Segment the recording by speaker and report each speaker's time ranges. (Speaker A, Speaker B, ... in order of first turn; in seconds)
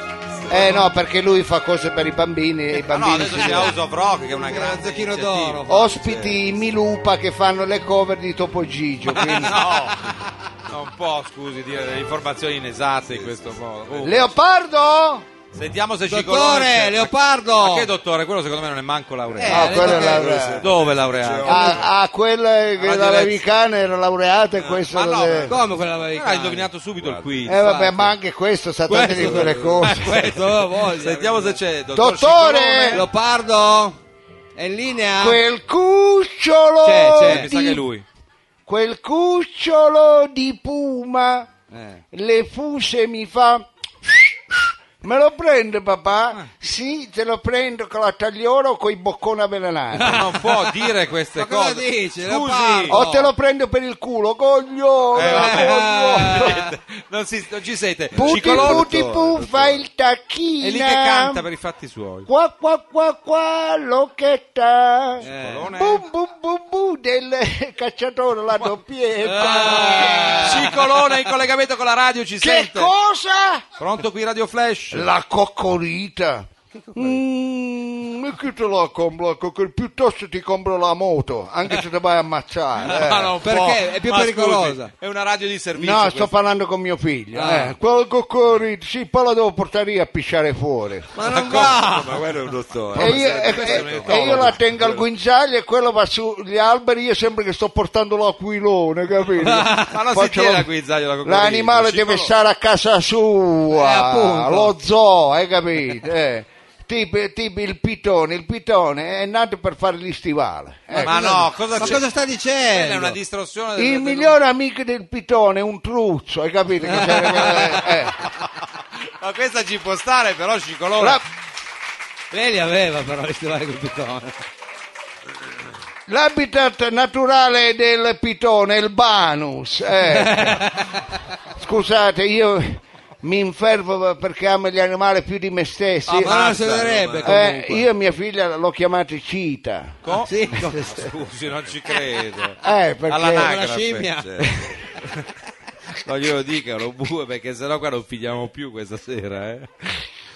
Speaker A: 0.5-3.8, 5.7-9.6, 14.0-15.2, 19.4-20.6, 21.4-25.5, 27.4-30.1, 31.9-33.0, 35.2-37.8, 38.7-41.5, 42.1-50.3, 52.9-56.5, 58.1-61.4, 62.3-70.8, 72.4-73.6, 74.9-83.3, 85.8-91.1, 93.0-100.7, 101.2-112.0, 113.8-118.2, 126.1-130.6, 131.6-136.4, 137.2-139.9, 142.6-143.5
Speaker B: 0.5-0.8, 2.8-5.6, 9.1-14.3, 15.5-20.0, 20.6-21.8, 22.8-23.5, 24.9-27.6, 29.0-33.0, 37.2-38.0, 50.0-53.0, 55.1-59.2, 60.6-62.3, 65.2-66.0, 69.3-72.9, 73.8-75.1, 82.8-86.3, 91.2-92.2, 92.9-94.6, 99.9-102.3, 111.0-112.0, 112.7-114.4, 119.0-121.2, 136.1-137.3, 140.0-144.1, 146.0-150.0
Speaker C: 4.3-6.4, 9.2-10.2, 16.1-17.9, 19.4-20.3, 25.5-26.7, 27.5-28.1, 28.9-31.6, 32.9-34.0, 34.5-35.4, 36.8-37.5, 41.7-42.0, 49.9-50.7, 51.4-53.3, 55.2-56.7, 65.2-65.7, 69.2-70.9, 76.7-77.2, 83.4-84.9, 87.3-87.7, 91.2-92.2, 99.4-100.0, 103.7-104.7, 110.9-113.2, 116.9-117.8, 122.3-124.4, 130.0-131.0, 136.2-137.9, 140.2-141.1, 143.4-144.4
Speaker D: 13.1-14.2, 19.6-21.9, 24.6-24.9, 27.0-27.5, 58.1-59.8, 91.4-95.0, 144.2-144.7